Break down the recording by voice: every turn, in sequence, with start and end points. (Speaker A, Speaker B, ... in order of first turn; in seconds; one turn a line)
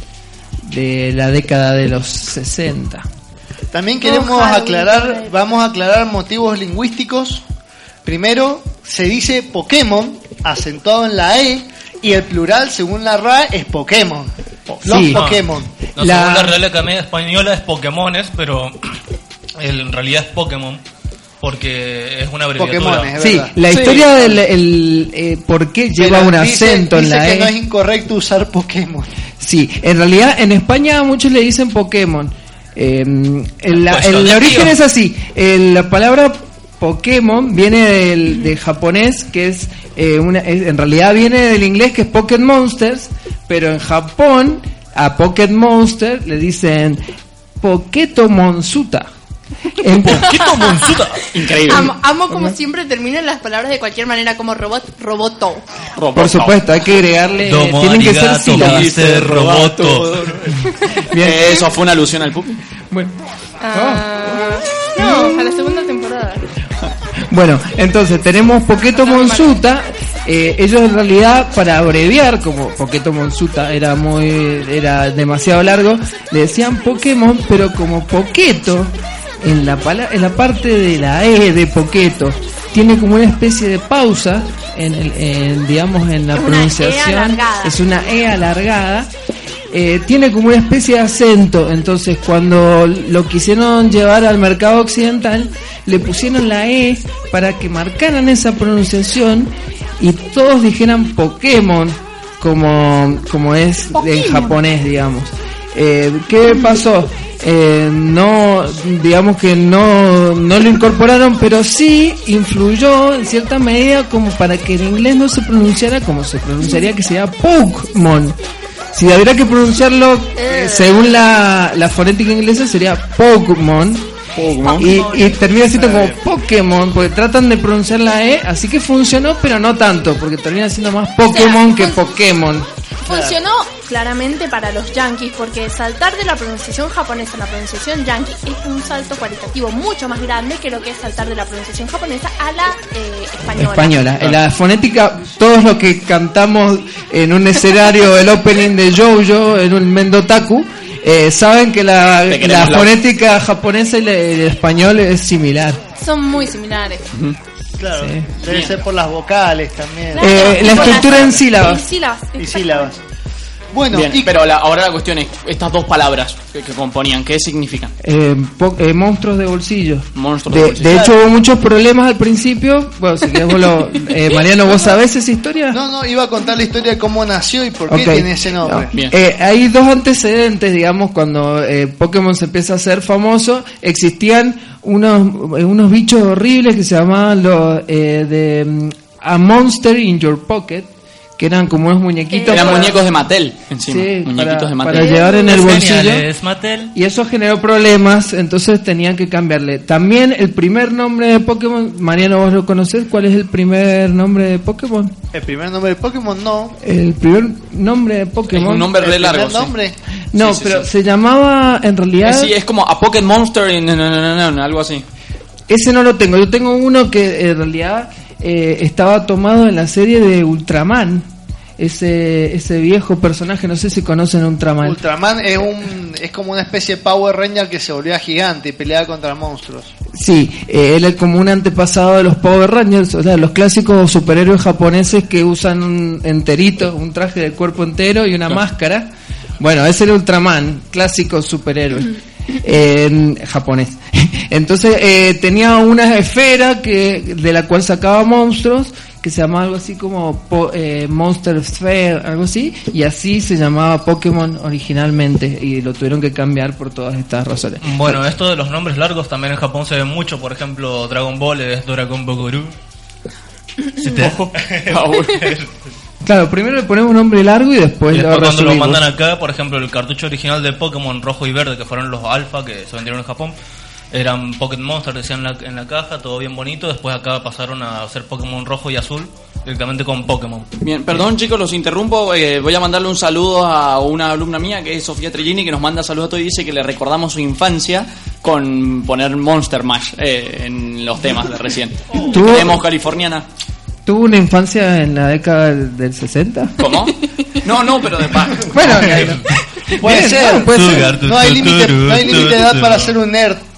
Speaker A: 0.6-3.0
Speaker B: 3.7-7.4
Speaker C: 4.0-5.3
Speaker B: 8.1-14.3
Speaker A: 14.8-15.2
Speaker B: 14.8-15.7
Speaker D: 14.9-15.4
Speaker D: 15.9-18.8
Speaker A: 16.0-16.6
Speaker D: 19.6-20.8
Speaker D: 21.4-23.1
Speaker B: 22.6-23.6
Speaker A: 23.2-27.5
Speaker E: 23.7-24.2
Speaker B: 26.0-29.1
Speaker A: 29.4-47.0
Speaker D: 33.7-34.7
Speaker A: 47.6-49.1
Speaker A: 49.8-50.4
Speaker D: 50.0-51.2
Speaker C: 50.1-51.0
Speaker E: 51.3-51.9
Speaker C: 51.7-55.6
Speaker E: 56.0-56.6
Speaker A: 56.1-59.1
Speaker D: 57.5-60.3
Speaker E: 58.6-60.5
Speaker A: 61.1-61.5
Speaker E: 61.2-62.6
Speaker C: 63.6-66.5
Speaker A: 63.7-64.0
Speaker A: 65.0-65.3
Speaker A: 67.3-89.1
Speaker C: 68.9-69.6
Speaker C: 86.4-87.8
Speaker A: 89.7-118.4
Speaker A: 118.9-124.1
Speaker C: 120.4-120.9
Speaker E: 124.4-125.1
Speaker C: 124.6-125.4
Speaker A: 124.8-132.7
Speaker C: 131.3-132.0
Speaker C: 133.0-144.2
Speaker B: 133.1-133.4
Speaker A: 143.6-155.8
Speaker E: 152.3-152.9
Speaker C: 156.0-157.1
Speaker B: 157.8-161.4
Speaker A: 158.0-158.3
Speaker C: 160.1-162.9
Speaker A: 160.2-161.8
Speaker B: 162.4-163.0
Speaker B: 163.7-164.3
Speaker E: 163.9-167.9
Speaker A: 168.0-175.8
Speaker E: 170.1-171.1
Speaker B: 175.7-178.9
Speaker A: 177.9-193.0
Speaker C: 192.3-193.0
Speaker E: 192.5-195.2
Speaker A: 193.9-196.3
Speaker C: 194.9-195.8
Speaker D: 195.4-196.9
Speaker A: 196.9-205.1
Speaker B: 205.3-206.8
Speaker A: 206.8-208.9
Speaker E: 208.5-209.7
Speaker B: 209.0-210.0
Speaker A: 210.3-212.5
Speaker E: 210.3-210.9
Speaker E: 212.2-215.0
Speaker A: 215.7-225.0
Speaker B: 224.8-229.9
Speaker A: 230.1-239.1
Speaker A: 239.6-242.1
Speaker A: 242.6-258.2
Speaker D: 257.8-262.7
Speaker E: 263.9-265.6
Speaker D: 264.0-265.7
Speaker A: 266.2-269.0
Speaker D: 268.1-273.6
Speaker D: 274.1-280.7
Speaker E: 280.8-293.5
Speaker A: 292.3-292.7
Speaker A: 294.1-296.8
Speaker E: 296.8-299.4
Speaker A: 298.7-301.1
Speaker B: 300.0-303.6
Speaker D: 300.7-303.1